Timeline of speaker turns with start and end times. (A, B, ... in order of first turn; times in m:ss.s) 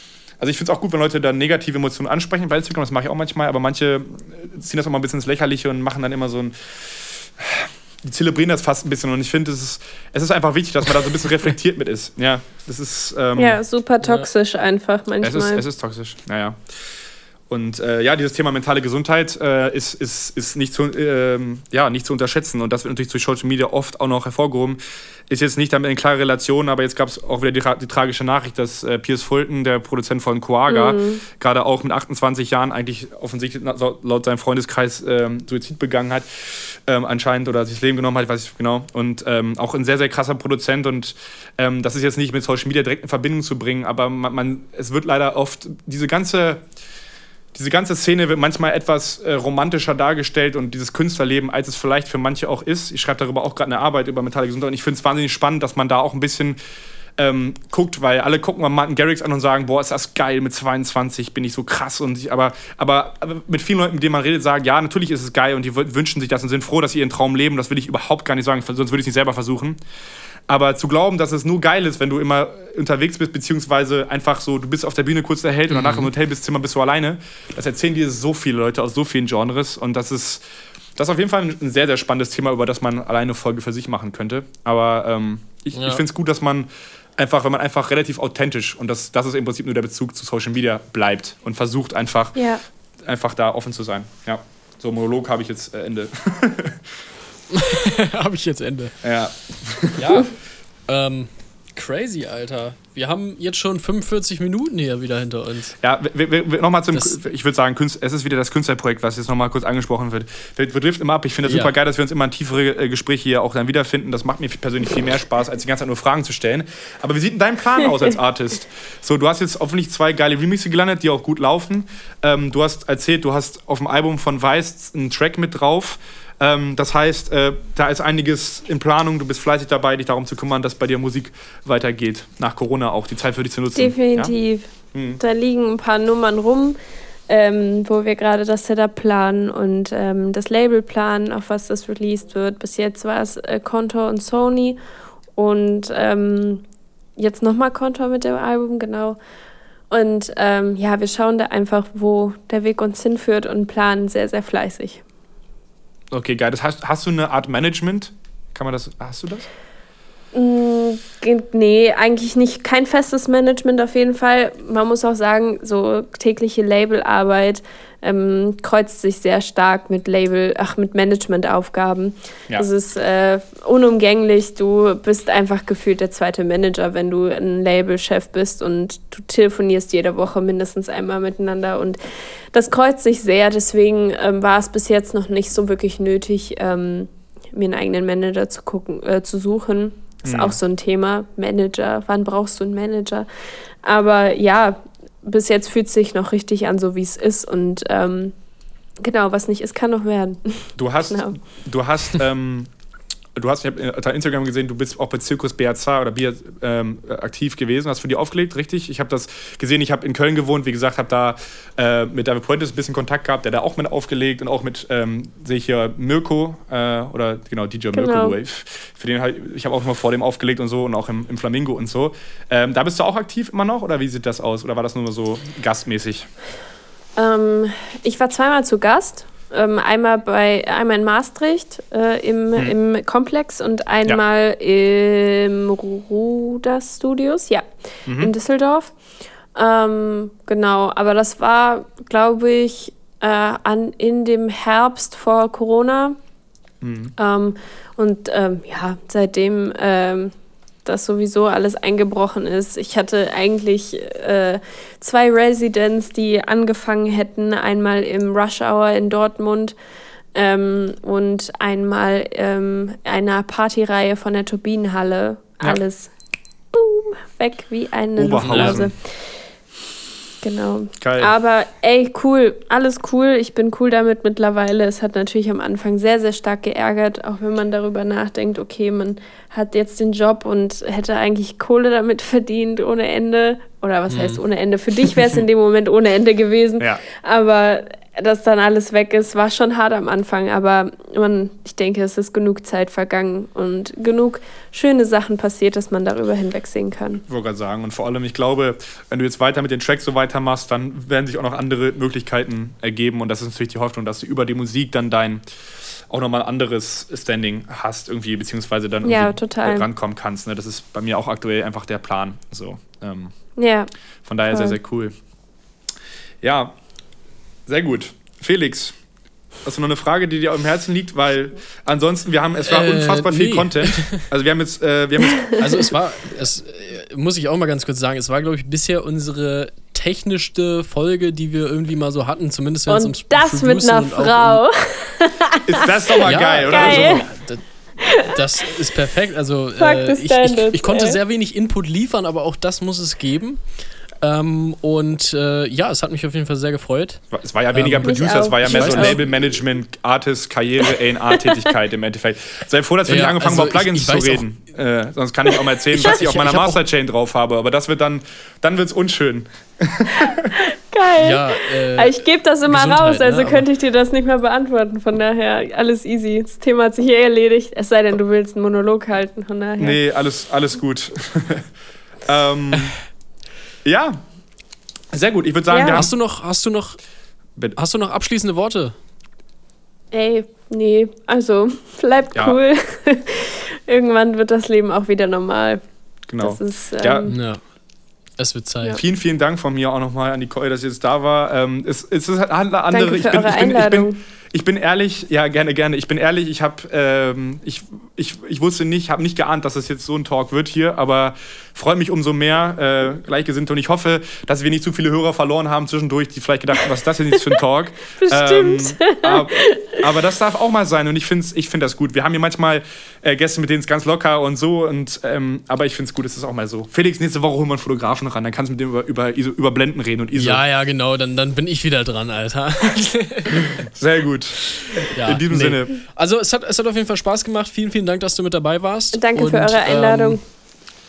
0:00.4-0:13.6 A
0:13.4-0:15.6 B
0:15.2-0:16.6 A
0:17.5-0:46.6 A
0:30.7-0:31.2 B
0:47.5-0:56.6 A
0:57.2-1:09.8 A
1:10.5-1:20.4 A
1:15.7-1:16.1 C
1:21.0-1:32.4 A
1:25.8-1:26.0 C
1:32.4-1:32.6 B
1:33.0-1:36.9 A
1:37.5-1:39.0 C
1:39.0-1:40.2 A
1:40.0-1:40.3 C
1:40.9-1:45.8 C
1:45.8-2:14.3 A
1:51.5-1:51.7 C
2:13.8-2:16.8 B
2:14.9-2:15.2 A
2:17.3-2:24.8 B
2:25.4-2:26.6 B
2:27.2-2:29.2 B
2:29.9-2:35.0 B
2:36.1-2:39.5 A
2:40.3-3:02.0 B
3:02.5-3:13.3 B
3:10.2-3:10.6 A
3:13.8-3:18.3 B
3:19.0-3:21.4 B
3:20.8-3:22.7 A
3:23.4-3:46.3 A
3:37.9-3:38.4 B
3:47.2-3:57.6 B
3:58.1-3:58.3 A
3:58.2-3:58.9 B
3:59.6-4:06.2 B
4:06.8-4:07.2 A
4:07.2-4:10.3 B
4:10.8-4:19.8 B
4:20.4-4:26.1 B
4:26.7-4:29.0 B
4:28.2-4:28.9 A
4:28.4-4:28.8 C
4:30.4-4:57.2 B
4:31.0-4:31.3 A
4:44.1-4:44.4 C
4:57.3-5:05.4 A
5:06.1-5:13.3 A
5:09.0-5:09.9 B
5:13.6-5:13.9 B
5:14.2-5:15.2 A
5:14.5-5:14.8 B
5:16.4-5:16.7 A
5:17.7-5:19.0 A
5:19.6-5:25.9 A
5:22.6-5:24.3 C
5:25.5-5:34.6 C
5:32.9-5:37.3 B
5:35.6-5:37.3 A
5:36.2-5:43.6 C
5:38.0-5:38.4 B
5:39.8-5:41.2 B
5:44.2-5:49.2 C
5:47.3-6:00.6 A
5:48.0-5:49.2 B
5:51.4-5:51.6 B
5:53.1-5:54.4 C
5:55.9-5:56.8 C
6:00.1-6:10.0 B
6:01.2-6:03.7 C
6:09.8-6:11.7 A
6:12.2-6:13.0 A
6:13.8-6:14.2 A
6:15.1-6:16.1 A
6:15.7-6:16.0 B
6:15.9-6:17.0 C
6:17.8-6:19.0 C
6:20.1-6:25.8 B
6:26.3-6:27.3 A
6:26.4-6:27.4 B
6:27.3-6:27.6 C
6:28.4-6:29.0 C
6:28.9-7:00.6 A
6:32.9-6:34.2 B
6:48.2-6:50.0 B
7:00.3-7:03.9 C
7:03.6-7:05.9 A
7:04.7-7:10.4 C
7:09.1-7:10.4 B